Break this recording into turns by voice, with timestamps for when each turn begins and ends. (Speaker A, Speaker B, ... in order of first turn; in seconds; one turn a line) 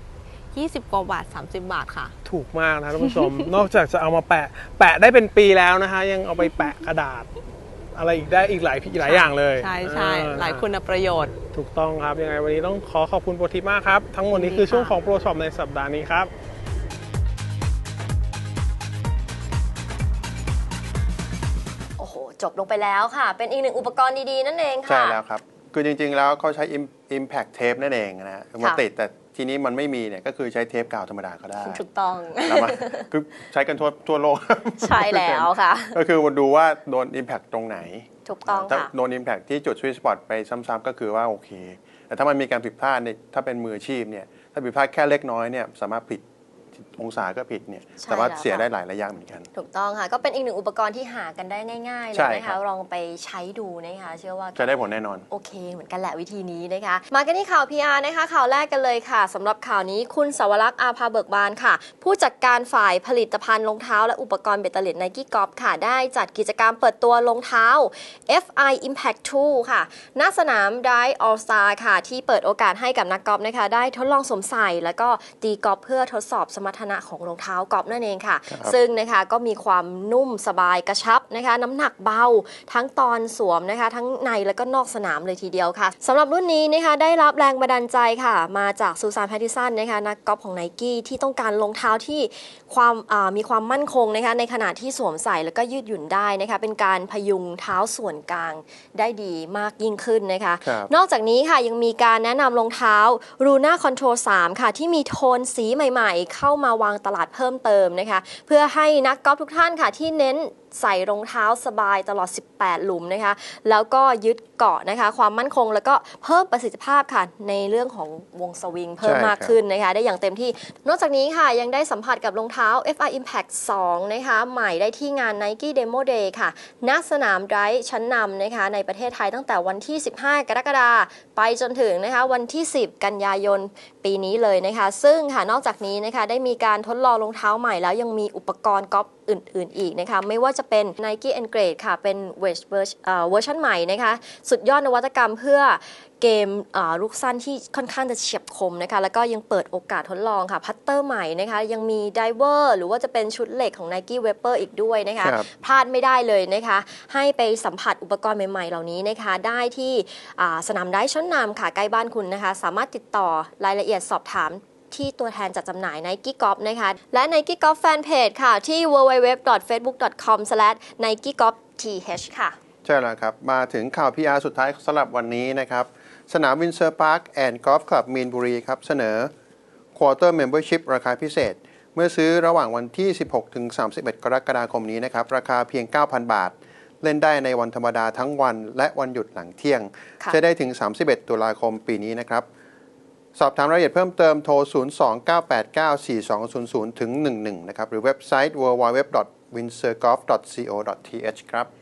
Speaker A: 0.5-2.1
Speaker B: 2.2-7.3
Speaker A: 3.0-3.2
Speaker B: 7.9-10.7
Speaker A: 9.0-11.3
Speaker B: 11.5-16.3
Speaker A: 14.3-15.0
Speaker C: 22.0-25.2
Speaker D: 24.9-31.8
Speaker C: 31.6-33.1
Speaker D: 32.4-46.2
Speaker C: 34.8-36.0
Speaker C: 38.2-38.9
Speaker D: 46.8-49.5
Speaker C: 48.0-48.7
Speaker C: 49.5-54.8
Speaker D: 52.1-52.6
Speaker D: 54.5-55.2
Speaker C: 55.3-172.6
Speaker D: 100.6-100.9
Speaker D: 119.0-119.6
Speaker D: 155.2-155.5
Speaker D: 172.8-179.3
Speaker D: 179.9-192.4
Speaker D: 193.3-201.7